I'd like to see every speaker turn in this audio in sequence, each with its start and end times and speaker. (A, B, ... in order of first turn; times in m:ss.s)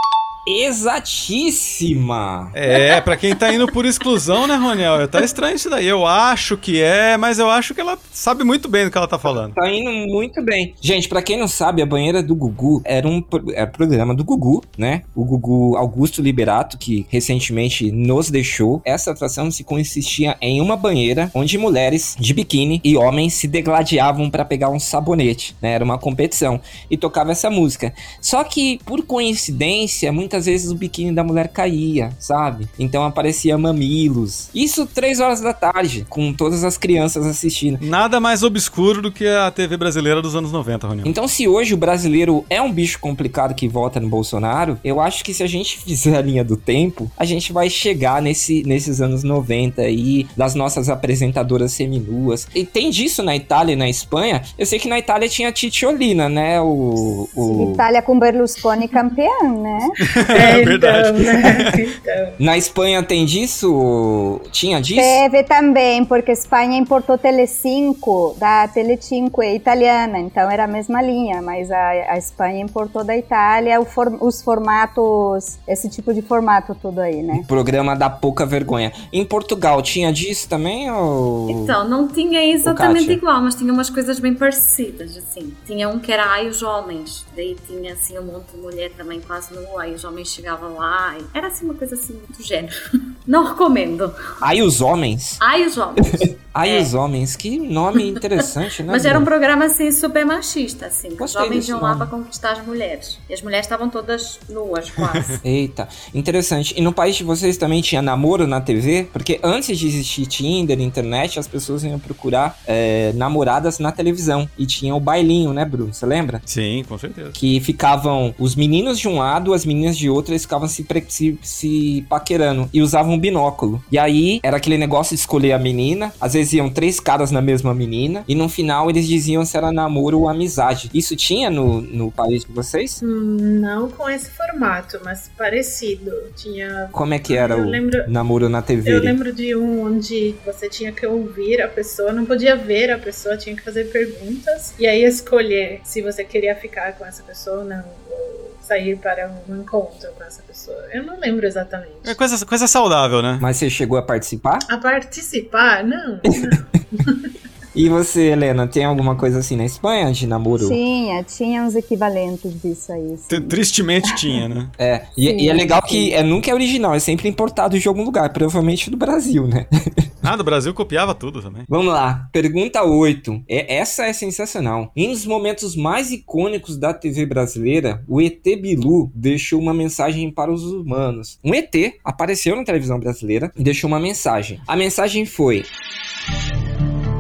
0:00.4-0:02.7 A
0:02.5-0:09.5 B
0:09.2-0:37.8 A
0:37.8-0:41.1 B
0:41.0-0:57.8 A
0:57.4-1:00.0 C
1:00.0-1:01.8 B
1:00.3-1:02.4 D
1:02.4-1:05.2 A
1:04.9-1:17.4 C
1:17.3-1:21.8 A
1:21.5-1:32.7 E
1:22.6-1:23.2 A
1:33.2-1:34.2 E
1:34.4-1:35.4 A
1:35.4-1:36.9 E
1:36.5-1:39.3 A
1:38.9-1:45.4 E
1:41.2-1:42.1 A
1:45.0-1:45.3 B
1:45.4-1:56.4 A
1:56.5-1:57.4 B
1:57.4-2:13.0 A
2:13.0-2:18.1 D
2:16.9-2:19.2 A
2:18.8-2:32.2 D
2:32.0-2:33.4 B
2:33.4-2:34.6 A
2:34.7-2:37.3 D
2:37.7-2:40.8 A
2:40.6-2:43.5 C
2:43.3-2:44.7 B
2:44.8-2:50.0 A
2:45.3-2:46.1 C
2:50.2-2:51.7 B
2:51.7-3:05.7 A